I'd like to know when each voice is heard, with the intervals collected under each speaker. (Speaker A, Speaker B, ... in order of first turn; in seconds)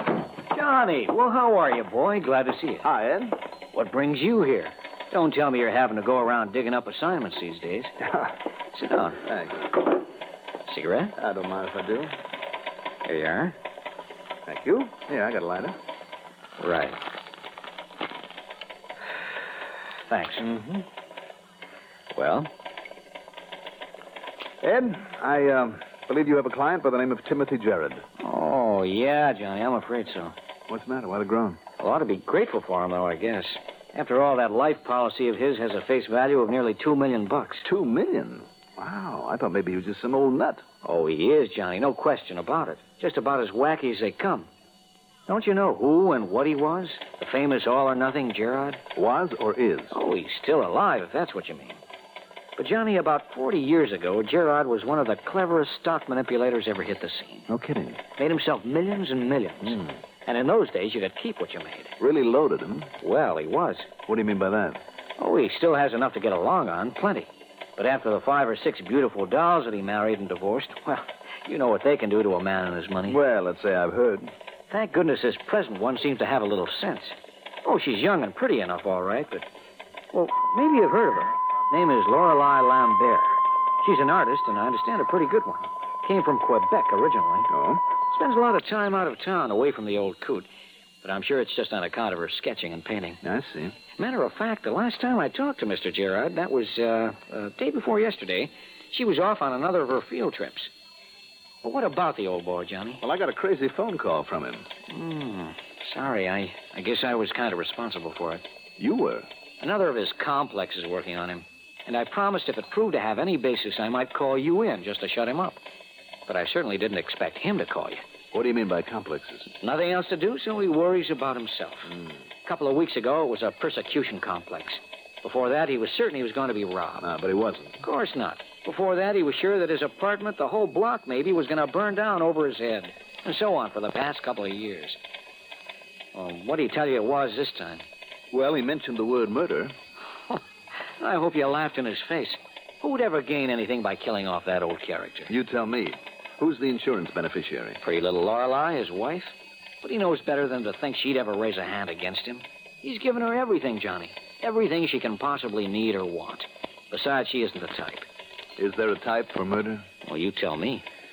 Speaker A: 0.5-2.9, 3.7-7.9, 8.7-9.2, 10.7-11.1, 13.0-13.5, 16.6-17.0, 20.1-20.8, 22.1-22.5, 28.2-30.3, 31.8-37.7, 40.8-44.5, 45.3-48.8, 49.9-51.8, 52.6-57.5, 58.2-61.9, 63.0-63.9, 65.2-73.2, 74.7-79.4, 80.1-87.5, 88.1-90.5, 91.0-93.2, 94.0-100.7, 101.6-103.0, 104.9-108.4, 109.6-115.6, 116.3-118.0, 119.6-121.9, 122.5-127.1, 127.8-135.0, 136.1-137.8, 141.0-145.3, 147.8-158.1, 160.0-160.8
Speaker B: 2.8-3.4, 9.2-9.7, 11.2-12.1, 14.4-15.8, 24.6-28.1, 30.7-31.6, 37.6-40.7, 48.9-50.0, 57.5-58.0, 62.0-62.9, 64.1-64.8, 73.0-74.3, 87.5-87.8, 93.2-93.8, 103.0-104.7, 108.8-109.3, 118.3-119.5, 127.0-127.8, 138.3-139.7, 145.3-147.8, 158.6-159.9